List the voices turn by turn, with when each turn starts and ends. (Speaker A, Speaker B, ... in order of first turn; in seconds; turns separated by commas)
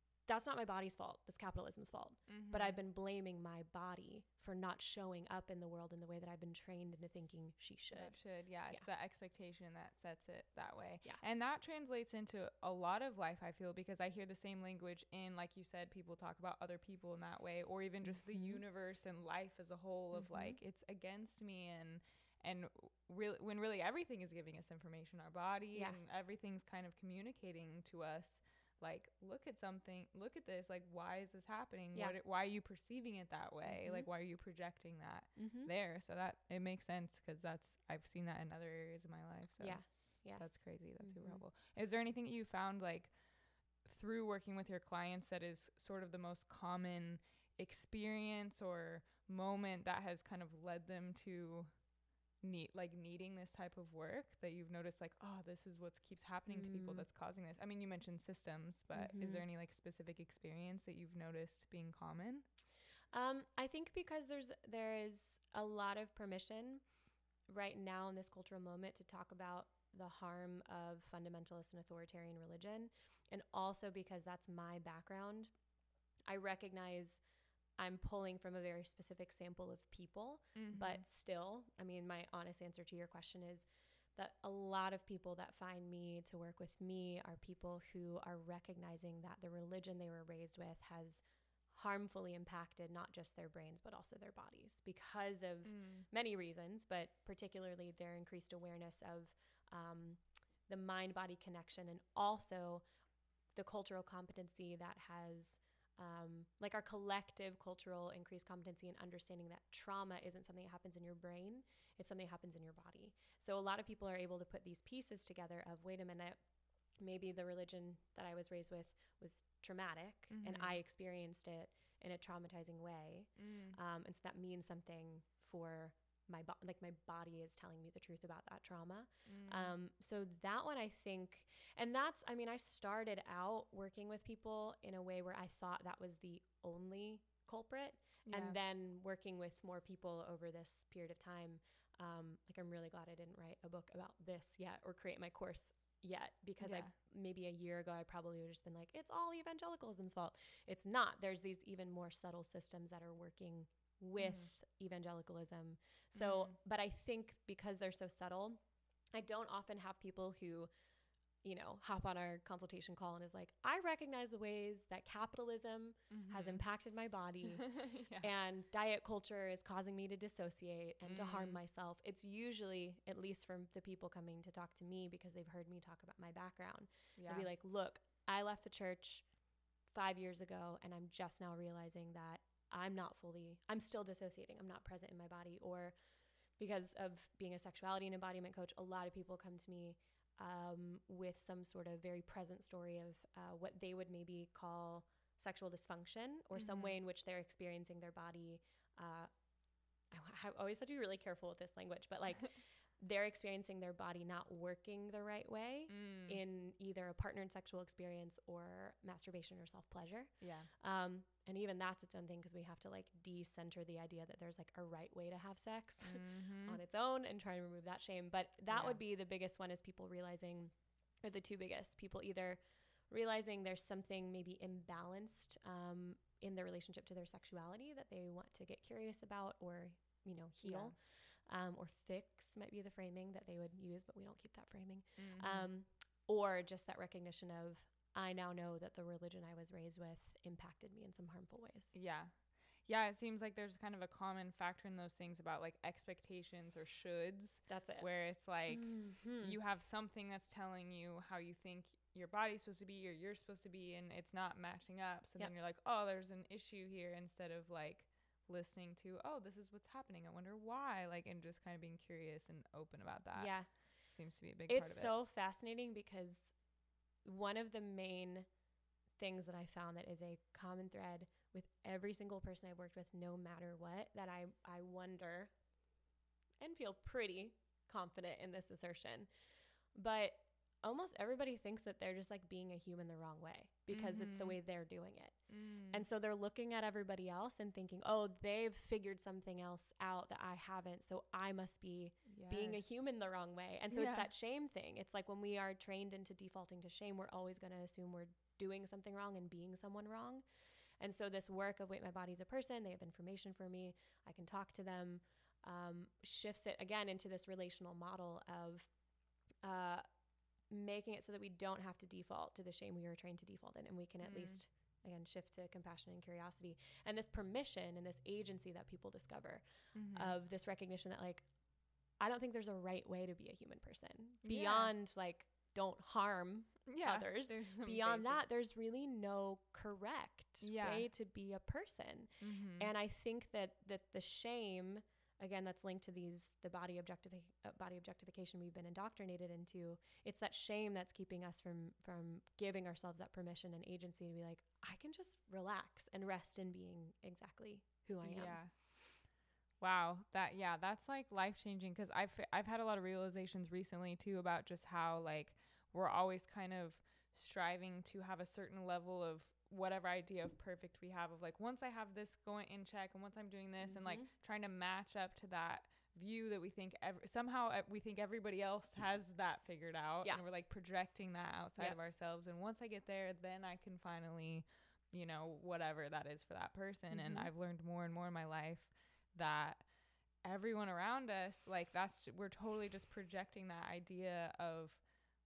Speaker A: 0.3-8.2, Speaker B: 2.3-2.8, Speaker B: 7.9-51.8, Speaker A: 18.3-18.6, Speaker A: 20.1-20.6, Speaker A: 33.7-34.1, Speaker A: 35.4-35.7, Speaker A: 39.6-41.4, Speaker B: 52.4-62.5, Speaker A: 56.5-57.1, Speaker A: 58.9-59.4, Speaker A: 63.1-66.8, Speaker A: 67.5-75.5, Speaker A: 76.3-77.2, Speaker A: 77.8-102.8, Speaker B: 80.5-81.0, Speaker B: 95.7-96.1, Speaker A: 103.5-116.4, Speaker A: 117.0-158.6, Speaker B: 120.3-120.8, Speaker B: 123.4-123.8, Speaker B: 129.3-129.8, Speaker B: 138.2-138.6, Speaker B: 146.6-146.9, Speaker B: 154.2-154.5, Speaker B: 156.2-156.6, Speaker A: 159.2-160.7, Speaker A: 161.4-179.3, Speaker B: 166.1-166.6, Speaker B: 167.6-168.3, Speaker B: 171.0-171.6, Speaker B: 177.2-177.5, Speaker A: 179.9-185.9, Speaker A: 186.6-199.3, Speaker B: 196.5-196.9, Speaker A: 200.1-220.7, Speaker B: 205.9-206.4, Speaker B: 210.4-210.7, Speaker B: 216.0-216.8, Speaker B: 218.7-219.0, Speaker A: 221.2-241.9, Speaker B: 230.6-231.0, Speaker B: 235.2-235.7, Speaker B: 241.9-265.1, Speaker A: 247.7-248.1, Speaker A: 248.7-249.6, Speaker A: 263.4-263.7, Speaker A: 264.7-266.6, Speaker A: 267.2-268.5, Speaker A: 269.2-275.5, Speaker A: 276.6-279.3, Speaker A: 279.9-300.4, Speaker B: 283.9-284.6, Speaker B: 285.5-286.0, Speaker B: 292.3-293.0, Speaker B: 293.9-294.3, Speaker A: 301.0-308.9, Speaker A: 309.6-310.0, Speaker A: 310.7-321.5, Speaker B: 314.2-314.6, Speaker B: 319.9-320.3, Speaker A: 322.2-348.6, Speaker B: 324.4-324.9, Speaker B: 326.9-328.5, Speaker B: 330.6-331.1, Speaker B: 332.4-332.9, Speaker B: 348.2-349.2, Speaker B: 349.8-379.9, Speaker A: 363.9-364.3, Speaker A: 377.1-377.5, Speaker B: 380.4-385.0